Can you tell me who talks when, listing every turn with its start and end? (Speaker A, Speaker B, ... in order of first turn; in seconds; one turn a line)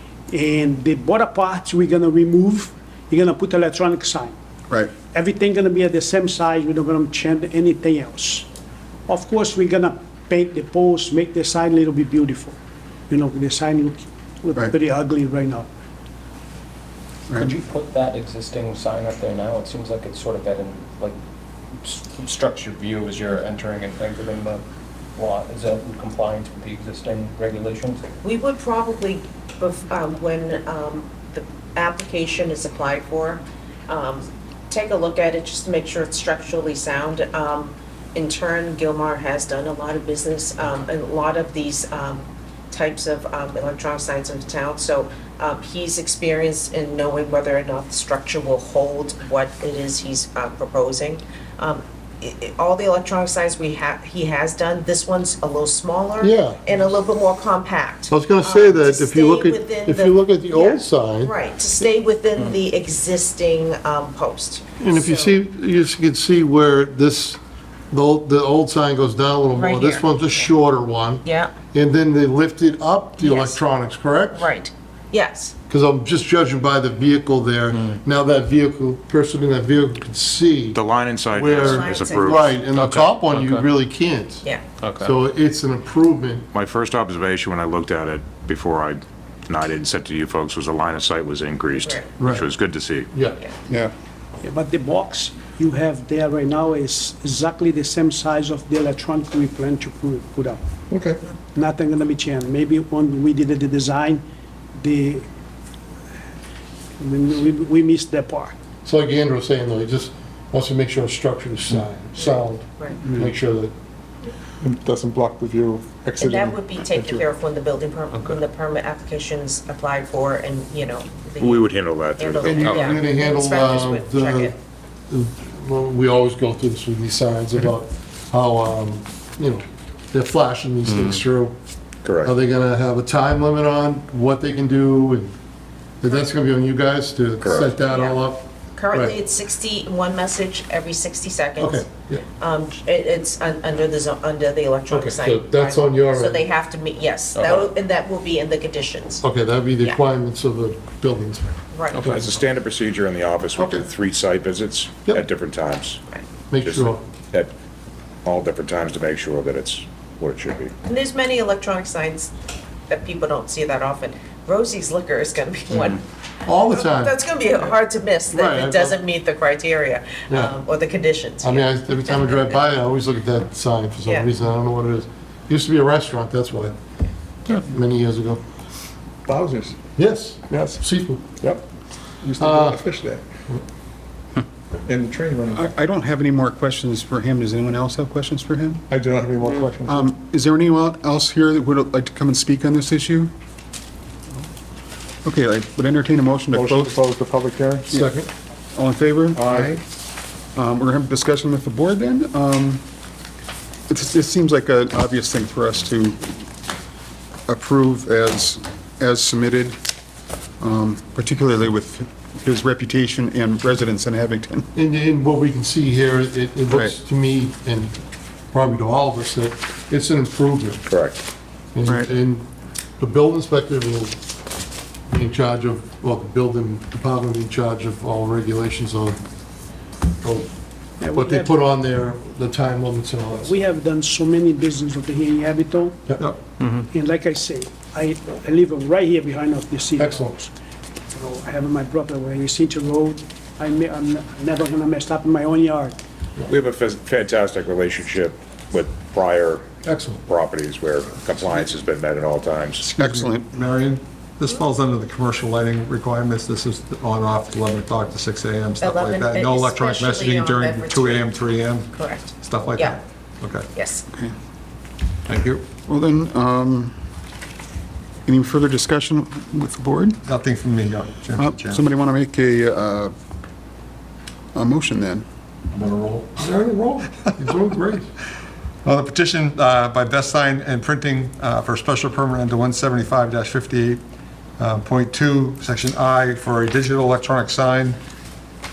Speaker A: 0.3-4.3
Speaker A: 5.0-8.5
Speaker A: 9.1-12.6
Speaker A: 13.1-15.7
Speaker B: 17.5-21.1
Speaker B: 21.9-24.5
Speaker B: 25.2-27.9
Speaker C: 28.2-65.4
Speaker D: 56.2-56.6
Speaker D: 58.1-61.3
Speaker D: 64.8-67.4
Speaker D: 67.9-74.5
Speaker C: 69.5-70.5
Speaker C: 71.2-71.5
Speaker C: 73.2-73.6
Speaker C: 74.3-75.5
Speaker D: 75.7-80.8
Speaker E: 80.7-83.1
Speaker D: 81.3-84.4
Speaker C: 81.5-82.5
Speaker D: 85.0-86.4
Speaker E: 86.5-93.1
Speaker C: 91.8-92.1
Speaker D: 92.2-92.4
Speaker D: 93.1-93.4
Speaker A: 94.4-100.6
Speaker A: 101.5-104.2
Speaker A: 104.7-105.2
Speaker A: 107.0-108.5
Speaker D: 108.8-113.7
Speaker C: 112.2-113.0
Speaker F: 114.6-117.2
Speaker C: 116.2-124.5
Speaker E: 121.4-123.0
Speaker D: 122.4-124.5
Speaker D: 125.1-131.5
Speaker E: 130.9-131.2
Speaker E: 132.0-132.3
Speaker D: 132.2-135.3
Speaker D: 136.0-139.2
Speaker E: 137.4-137.7
Speaker C: 137.4-138.2
Speaker C: 138.8-141.8
Speaker D: 141.6-142.2
Speaker C: 142.4-149.2
Speaker D: 144.9-146.4
Speaker D: 149.2-152.3
Speaker C: 151.7-152.1
Speaker E: 152.0-156.0
Speaker D: 153.5-153.9
Speaker D: 156.5-157.0
Speaker E: 156.6-157.5
Speaker E: 158.2-160.7
Speaker C: 160.8-162.3
Speaker C: 162.9-166.0
Speaker D: 166.4-167.2
Speaker C: 166.7-172.6
Speaker D: 168.3-169.0
Speaker D: 170.3-170.6
Speaker D: 171.4-176.8
Speaker D: 177.5-178.4
Speaker F: 179.3-179.8
Speaker D: 179.9-181.3
Speaker F: 182.2-183.2
Speaker D: 182.4-182.8
Speaker F: 184.9-185.7
Speaker G: 185.5-188.8
Speaker F: 188.9-190.1
Speaker G: 189.8-193.3
Speaker G: 195.2-196.9
Speaker F: 196.5-197.9
Speaker D: 197.9-198.3
Speaker G: 198.7-199.8
Speaker F: 199.3-199.8
Speaker G: 200.5-202.8
Speaker G: 203.9-206.4
Speaker G: 207.5-209.8
Speaker G: 210.6-214.7
Speaker D: 214.7-218.0
Speaker G: 216.7-216.9
Speaker D: 218.5-220.8
Speaker E: 220.8-221.2
Speaker D: 221.7-222.4
Speaker G: 221.8-222.1
Speaker D: 223.0-224.2
Speaker D: 225.1-229.2
Speaker D: 230.2-230.5
Speaker A: 231.0-231.5
Speaker D: 231.1-233.5
Speaker A: 233.3-236.0
Speaker A: 236.9-240.5
Speaker D: 240.0-240.3
Speaker A: 241.1-245.9
Speaker E: 246.5-249.7
Speaker D: 249.8-250.2
Speaker E: 250.2-252.9
Speaker G: 252.8-253.5
Speaker H: 253.0-263.7
Speaker C: 258.8-261.3
Speaker C: 261.9-263.0
Speaker C: 263.7-264.0
Speaker H: 265.3-265.7
Speaker G: 265.8-267.0
Speaker G: 268.3-270.2
Speaker H: 270.2-271.8
Speaker G: 271.4-273.1
Speaker G: 274.5-275.2
Speaker H: 275.7-276.5
Speaker D: 276.4-278.1
Speaker H: 278.8-284.0
Speaker H: 284.6-288.0